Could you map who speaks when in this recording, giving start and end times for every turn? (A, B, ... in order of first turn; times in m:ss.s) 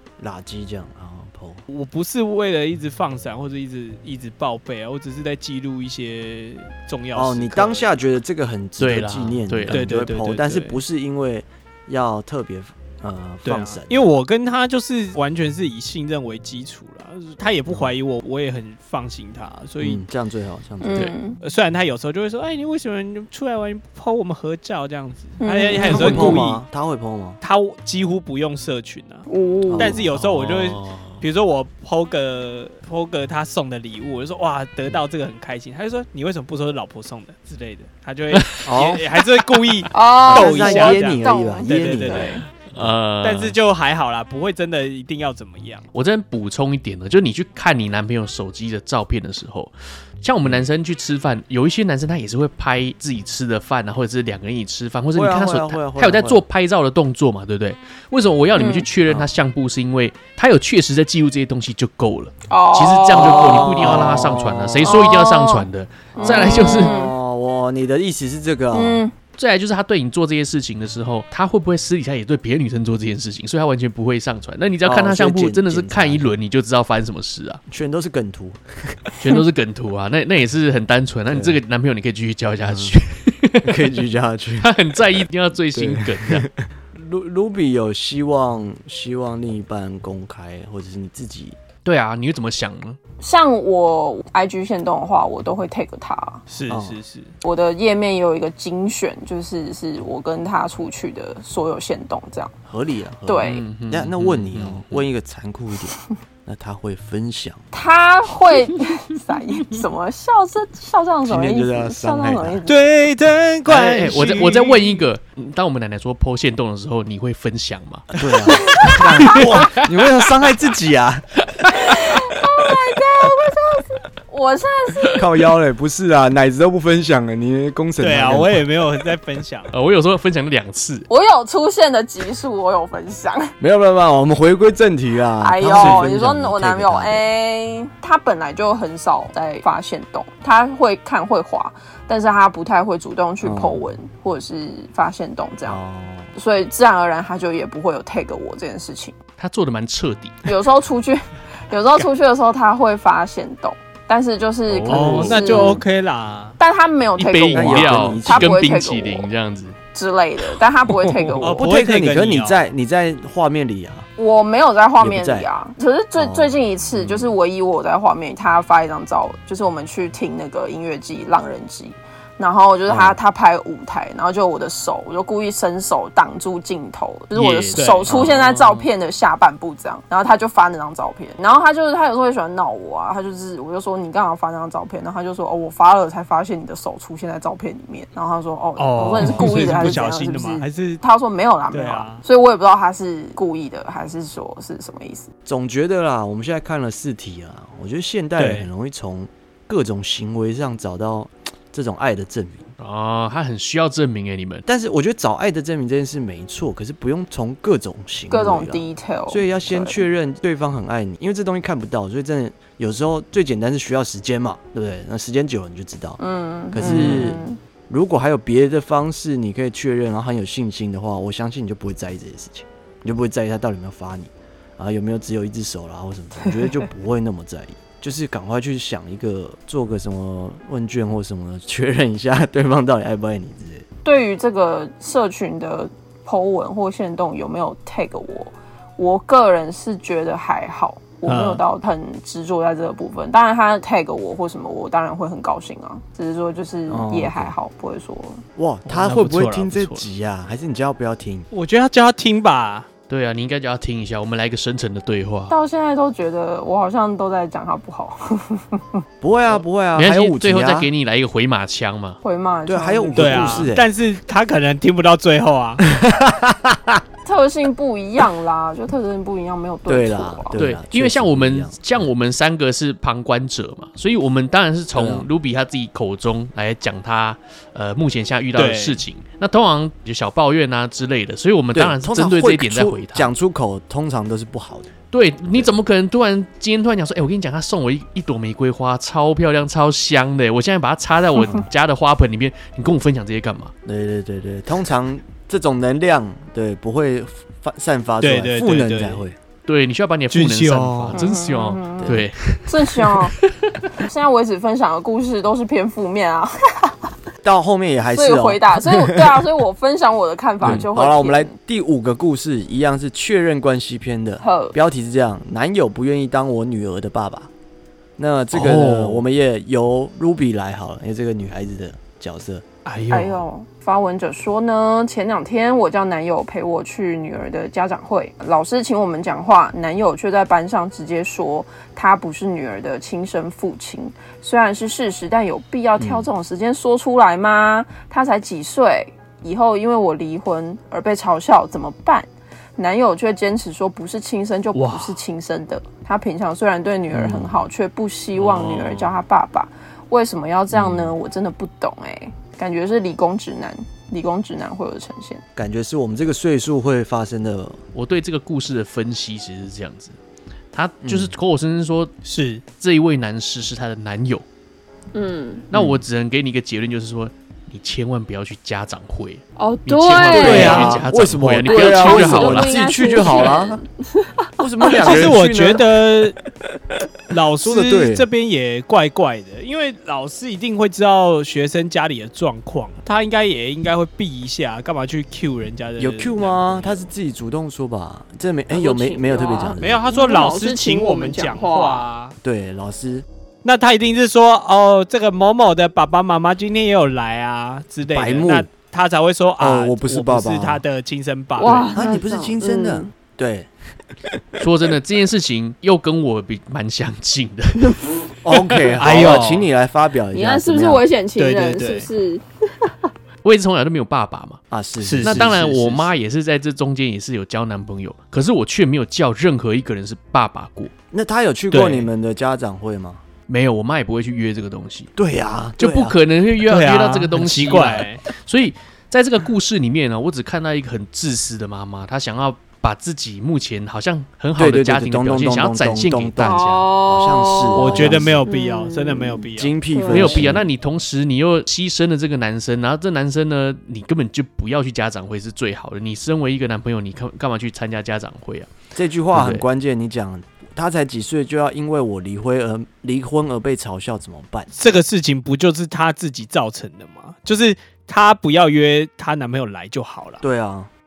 0:00.2-0:01.6 A
0:01.7-0:07.9 B
0:07.1-0:14.0 A
0:08.8-0:10.0 C
0:09.7-0:10.8 B
0:13.4-0:20.0 B
0:17.7-0:17.9 A
0:19.8-0:21.1 A
0:20.8-0:21.4 D
0:21.4-0:26.6 B
0:25.4-0:26.4 D
0:25.8-0:27.4 A
0:27.4-0:29.3 B
0:29.3-0:30.0 D
0:29.7-0:30.0 A
0:29.8-0:42.4 B
0:30.1-0:31.2 C
0:38.3-0:39.2 C
0:38.6-0:39.0 A
0:39.9-0:42.4 D
0:40.3-0:42.9 A
0:42.7-0:43.6 C
0:43.2-0:45.9 B
0:45.9-1:06.9 C
0:50.4-0:50.7 A
0:55.1-0:56.4 A
0:58.6-0:58.9 D
1:02.5-1:03.9 D
1:03.1-1:05.0 A
1:04.8-1:05.7 D
1:06.1-1:09.0 A
1:06.2-1:07.1 D
1:08.7-1:09.1 D
1:09.4-1:17.6 C
1:14.8-1:16.3 A
1:17.7-1:19.0 A
1:19.2-1:23.9 C
1:21.3-1:21.6 A
1:22.6-1:23.0 A
1:23.6-1:24.7 A
1:24.6-1:26.5 C
1:25.7-1:31.6 A
1:31.8-1:33.0 C
1:33.2-1:36.4 D
1:36.5-1:37.3 B
1:36.7-1:37.0 A
1:37.4-1:42.5 D
1:42.7-1:47.6 A
1:43.3-1:43.6 D
1:43.4-1:45.0 C
1:47.7-1:52.8 D
1:51.3-1:52.6 A
1:52.7-1:54.9 B
1:53.7-1:59.9 C
1:58.2-2:01.3 A
1:58.5-1:59.4 D
2:01.5-2:02.0 C
2:01.7-2:05.2 D
2:05.2-2:08.6 A
2:08.0-2:09.7 B
2:09.7-2:11.1 C
2:11.1-2:13.5 D
2:13.6-2:17.2 A
2:15.4-2:25.8 D
2:15.7-2:16.1 B
2:23.4-2:23.8 A
2:25.7-2:26.3 A
2:26.4-2:29.1 D
2:29.4-2:30.4 C
2:30.4-2:35.8 D
2:34.7-2:35.4 C
2:34.9-2:36.6 B
2:35.1-2:35.7 A
2:36.6-2:39.3 D
2:37.2-2:39.8 C
2:37.5-2:38.7 A
2:39.9-2:41.6 D
2:41.4-2:42.6 B
2:41.6-2:44.1 A
2:44.2-3:15.3 D
2:45.0-2:45.5 A
2:46.2-2:47.3 A
2:52.9-2:53.2 A
2:57.3-2:58.9 C
2:57.8-2:58.1 B
3:08.8-3:11.0 B
3:11.7-3:12.2 B
3:15.5-3:22.7 A
3:18.4-3:18.7 B
3:22.8-3:24.6 C
3:24.7-3:36.2 A
3:28.3-3:30.0 D
3:36.2-3:37.6 D
3:36.7-3:53.8 A
3:36.8-3:37.3 C
3:54.0-4:08.4 D
4:01.2-4:01.6 B
4:06.9-4:07.5 A
4:08.6-4:11.5 A
4:08.8-4:10.1 B
4:11.5-4:12.9 B
4:13.1-4:15.5 C
4:15.5-4:19.0 D
4:19.2-4:20.9 A
4:20.0-4:22.2 C
4:22.2-4:23.7 D
4:22.7-4:23.9 A
4:23.2-4:25.8 B
4:25.8-4:27.0 A
4:27.2-4:30.6 D
4:29.9-4:31.8 A
4:30.6-4:43.3 C
4:34.9-4:35.3 A
4:38.6-4:39.0 B
4:41.7-4:45.0 A
4:45.1-4:53.7 C
4:45.5-4:45.7 A
4:53.8-4:59.4 A
4:58.2-4:59.2 B
4:59.7-5:03.8 C
5:00.3-5:01.2 B
5:01.1-5:03.4 D
5:02.0-5:02.3 A
5:03.9-5:07.0 D
5:07.4-5:09.4 A
5:08.1-5:11.6 D
5:10.6-5:17.5 A
5:14.4-5:14.8 D
5:18.2-5:22.6 A
5:18.5-5:19.2 C
5:22.9-5:23.4 B
5:23.1-5:55.4 D
5:36.0-5:36.3 A
5:47.1-5:47.6 A
5:48.4-5:49.2 C
5:50.7-5:51.2 A
5:55.6-5:57.8 A
5:57.9-6:00.2 C
6:00.7-6:02.1 C
6:01.0-6:01.3 A
6:02.2-6:02.6 B
6:02.8-6:04.4 C
6:05.1-6:05.6 D
6:05.7-6:12.7 C
6:05.7-6:06.0 A
6:09.6-6:11.0 D
6:10.3-6:13.8 A
6:10.5-6:11.0 B
6:11.6-6:15.2 D
6:14.6-6:16.0 A
6:14.9-6:16.4 B
6:17.3-6:27.0 B
6:17.6-6:18.3 A
6:26.0-6:30.0 A
6:28.7-6:32.1 D
6:29.8-6:32.4 B
6:32.4-6:33.2 A
6:33.6-6:41.9 B
6:38.1-6:38.7 A
6:39.6-6:40.8 A
6:41.6-6:43.1 D
6:41.9-6:43.7 A
6:44.6-6:48.0 C
6:48.4-6:51.0 A
6:49.0-6:49.7 B
6:50.3-6:53.0 D
6:51.4-6:52.1 B
6:53.4-6:54.6 C
6:54.7-6:55.9 A
6:55.0-6:56.1 B
6:55.2-7:00.9 C
7:01.1-7:03.2 A
7:01.7-7:02.1 B
7:03.5-7:05.1 C
7:05.2-7:06.2 A
7:05.8-7:16.8 C
7:06.7-7:08.2 B
7:14.6-7:18.4 A
7:16.4-7:20.4 D
7:17.8-7:19.8 B
7:19.6-7:20.7 A
7:20.1-7:28.7 C
7:28.9-7:34.7 A
7:29.3-7:29.6 C
7:34.8-7:40.4 B
7:40.4-7:40.9 A